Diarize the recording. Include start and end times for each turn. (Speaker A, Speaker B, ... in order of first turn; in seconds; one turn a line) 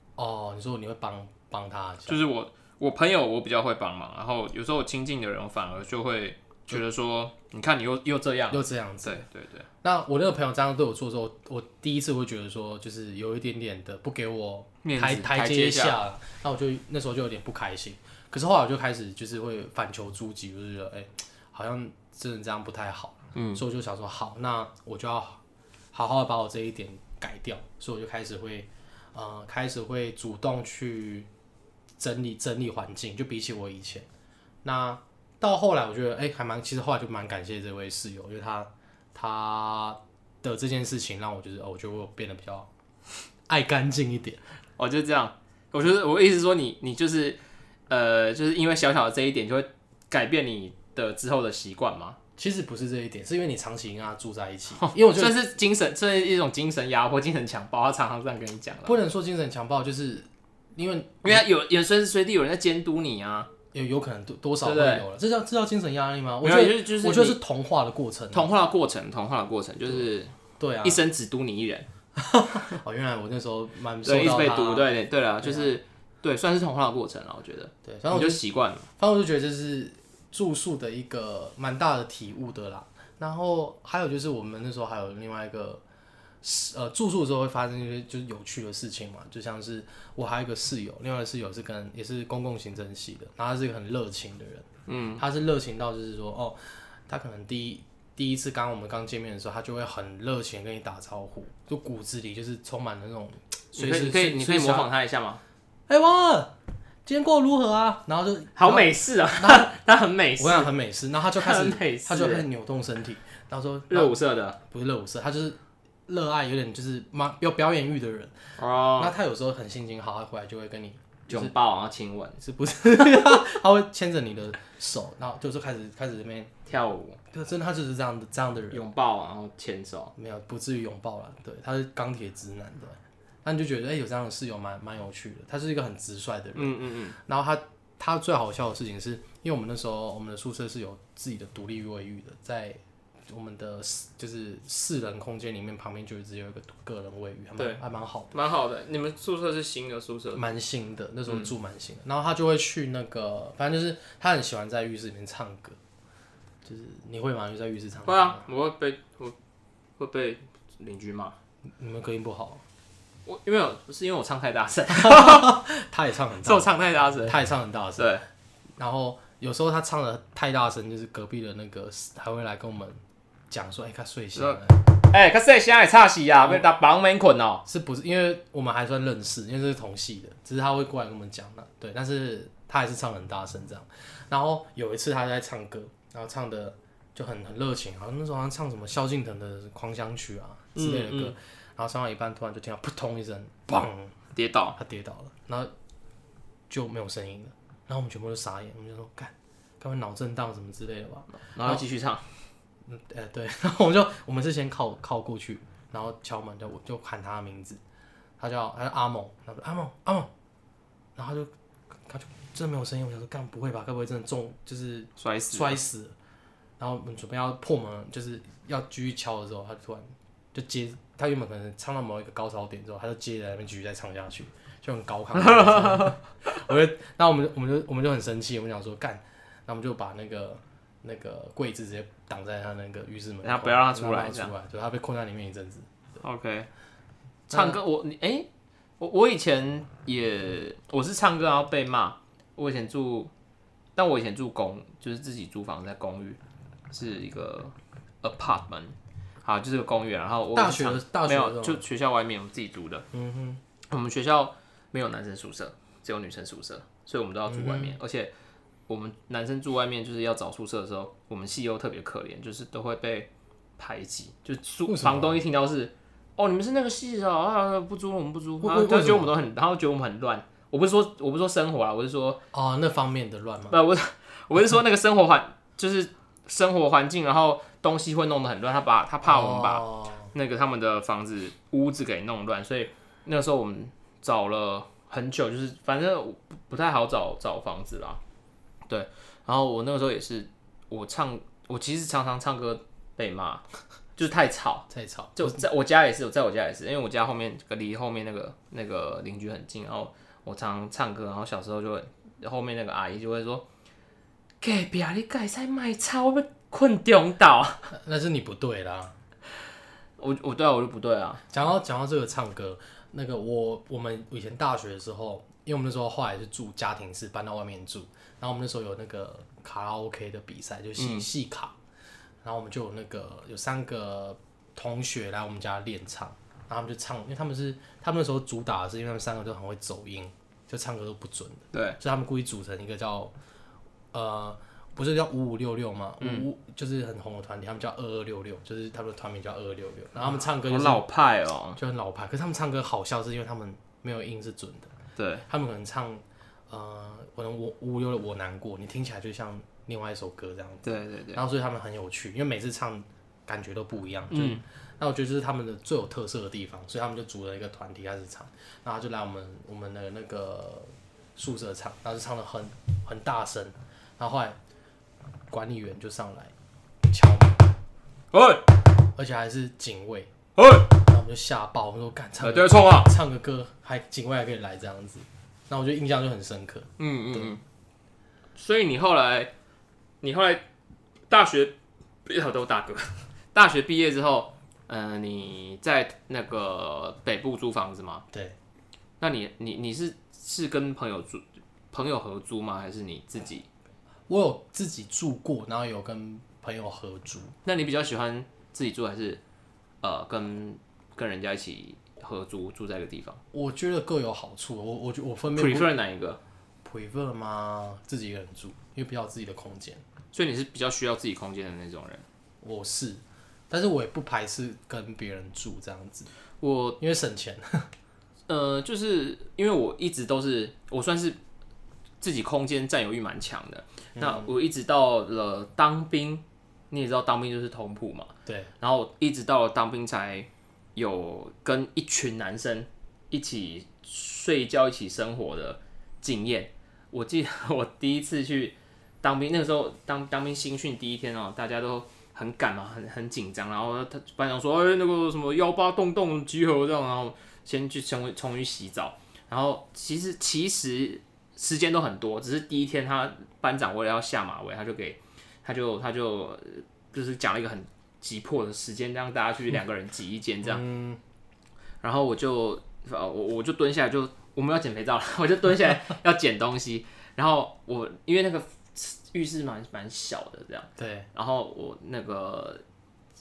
Speaker A: 0.2-2.2
Speaker B: 2.1-9.7
Speaker A: 8.5-9.2
Speaker A: 9.8-25.4
Speaker B: 14.8-16.0
Speaker B: 23.3-23.6
Speaker A: 25.9-31.3
Speaker A: 32.0-34.1
Speaker A: 34.6-42.7
Speaker A: 43.5-44.4
Speaker B: 44.8-52.2
Speaker A: 52.4-55.4
Speaker B: 54.8-59.0
Speaker A: 58.8-61.5
Speaker B: 61.2-63.5
Speaker A: 63.7-68.5
Speaker B: 64.6-65.0
Speaker B: 66.4-67.4
Speaker B: 68.3-71.9
Speaker A: 70.6-71.0
Speaker A: 72.2-74.9
Speaker B: 74.0-78.9
Speaker A: 75.4-75.7
Speaker A: 77.8-78.4
Speaker A: 79.0-85.8
Speaker A: 86.4-104.9
Speaker B: 94.9-95.2
Speaker B: 103.7-105.4
Speaker A: 105.9-106.5
Speaker A: 107.0-109.7
Speaker B: 108.5-110.7
Speaker A: 110.4-121.5
Speaker B: 111.3-112.5
Speaker B: 113.9-114.6
Speaker B: 118.6-119.1
Speaker B: 121.3-122.4
Speaker A: 122.4-126.5
Speaker B: 126.7-127.2
Speaker A: 127.3-128.8
Speaker B: 128.7-130.1
Speaker A: 130.2-148.3
Speaker B: 136.5-137.2
Speaker B: 148.3-150.4
Speaker A: 150.3-155.8
Speaker A: 156.6-158.4
Speaker B: 158.0-159.3
Speaker B: 160.0-161.3
Speaker A: 161.8-162.6
Speaker B: 163.2-165.6
Speaker A: 164.9-168.1
Speaker B: 166.4-167.4
Speaker B: 168.0-168.2
Speaker A: 168.8-174.8
Speaker B: 174.3-177.6
Speaker A: 177.7-194.1
Speaker B: 190.7-191.3
Speaker B: 194.3-194.8
Speaker A: 194.8-195.7
Speaker A: 196.7-201.8
Speaker B: 201.4-202.2
Speaker A: 202.8-207.8
Speaker A: 208.4-210.3
Speaker A: 211.2-211.5
Speaker A: 212.1-216.1
Speaker B: 215.2-215.8
Speaker A: 216.8-235.9
Speaker B: 225.3-226.2
Speaker B: 233.4-234.5
Speaker B: 236.2-236.7
Speaker B: 237.5-238.5
Speaker A: 237.5-237.8
Speaker B: 239.0-243.3
Speaker B: 243.9-246.4
Speaker B: 246.9-253.1
Speaker A: 250.5-251.8
Speaker A: 253.1-253.6
Speaker B: 253.9-258.3
Speaker A: 257.5-257.9
Speaker B: 258.9-272.4
Speaker A: 264.9-265.4
Speaker A: 268.6-269.3
Speaker A: 272.5-273.8
Speaker B: 273.7-288.2
Speaker A: 279.2-280.3
Speaker B: 288.9-293.6
Speaker B: 294.2-303.6
Speaker A: 294.9-295.6
Speaker B: 304.6-307.9
Speaker A: 307.9-309.1
Speaker B: 310.2-311.4
Speaker A: 311.5-321.7
Speaker B: 321.0-321.3
Speaker A: 322.4-333.3
Speaker B: 331.7-332.0
Speaker A: 334.1-341.0
Speaker B: 336.2-336.4
Speaker B: 340.2-341.8
Speaker A: 341.8-344.9
Speaker B: 345.1-345.4
Speaker A: 345.5-364.6
Speaker B: 350.8-351.4
Speaker B: 354.3-354.6
Speaker A: 365.5-366.5
Speaker A: 367.1-367.7
Speaker B: 368.3-368.7
Speaker A: 369.1-370.3
Speaker B: 370.6-370.9
Speaker A: 371.0-377.5
Speaker B: 372.4-373.1
Speaker B: 377.0-377.6
Speaker B: 378.6-379.5
Speaker B: 380.2-380.6
Speaker B: 381.3-388.2
Speaker B: 389.2-393.7
Speaker A: 394.3-397.5
Speaker B: 397.6-399.4
Speaker B: 400.0-403.4
Speaker A: 403.5-405.9
Speaker B: 405.5-406.4
Speaker A: 406.8-410.0
Speaker B: 410.3-412.2
Speaker A: 412.6-416.3
Speaker B: 416.6-417.0
Speaker A: 417.0-417.9
Speaker B: 418.5-421.4
Speaker B: 422.2-460.8
Speaker A: 424.1-424.5
Speaker A: 428.4-428.7
Speaker A: 460.6-461.2
Speaker B: 462.0-472.8
Speaker A: 471.0-471.3